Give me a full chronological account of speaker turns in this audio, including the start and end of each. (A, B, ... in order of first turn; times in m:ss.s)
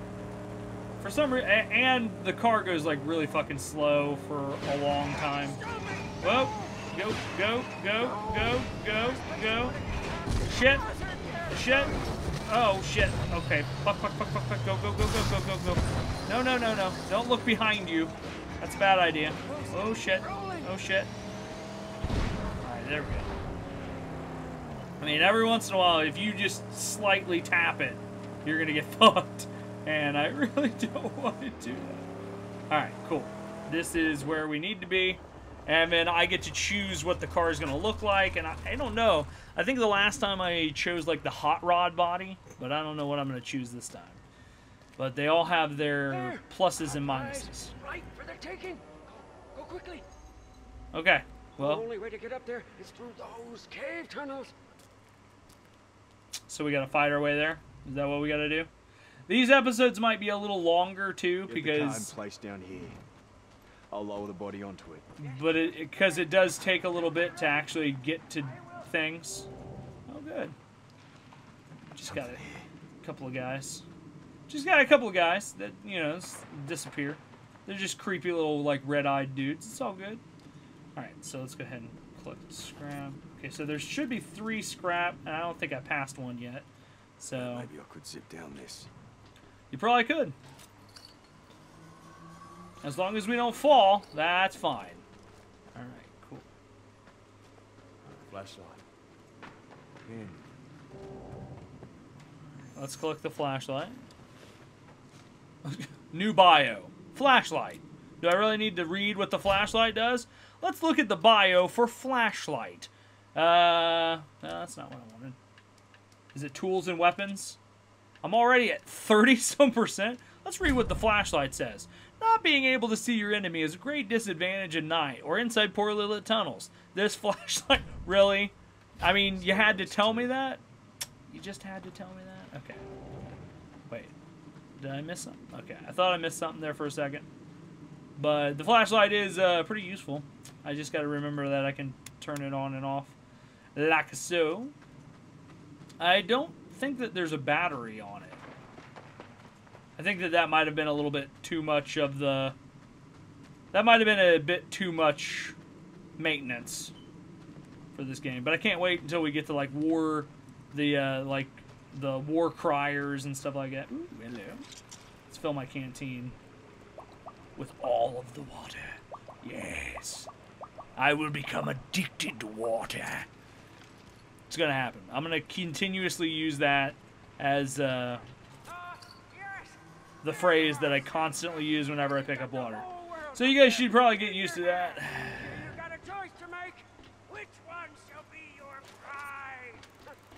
0:01.0-0:05.6 A
0:05.3-0:06.9 B
0:06.2-0:09.8 A
0:08.0-0:12.1 B
0:10.4-0:10.9 A
0:11.5-0:21.1 A
0:19.4-0:20.7 B
0:22.6-0:23.4 A
0:25.0-0:32.1 A
0:32.7-0:44.2 A
0:45.0-0:47.8 A
0:46.1-0:50.0 B
0:50.9-0:51.9 A
0:51.6-0:54.5 B
0:56.5-0:58.7 A
0:59.3-1:02.1 A
1:01.5-1:03.0 C
1:03.9-1:05.2 C
1:05.2-1:07.7 B
1:05.2-1:09.5 A
1:08.4-1:08.9 B
1:10.1-1:10.6 A
1:11.9-1:12.4 A
1:12.0-1:12.7 C
1:13.0-1:13.8 A
1:14.5-1:20.2 A
1:21.0-1:26.7 A
1:27.2-1:27.7 A
1:27.4-1:28.9 C
1:29.7-1:30.4 A
1:32.8-1:35.0 A
1:35.8-1:36.5 A
1:38.0-1:38.8 C
1:40.0-1:40.4 C
1:42.8-1:44.0 A
1:45.6-1:55.4 A
1:56.3-1:57.6 A
1:58.2-2:10.6 A
2:09.4-2:10.1 C
2:11.3-2:12.8 A
2:14.8-2:17.3 A
2:18.2-2:23.2 A
2:23.8-2:24.8 A
2:26.0-2:28.4 A
2:30.0-2:32.6 A
2:33.7-2:35.6 A
2:36.2-2:36.9 A
2:37.9-2:44.6 A
2:45.3-2:46.4 A
2:47.6-2:50.3 A
2:51.0-2:53.3 A
2:54.5-2:58.2 A
2:58.7-3:10.2 B
3:00.2-3:02.8 A
3:03.4-3:05.7 A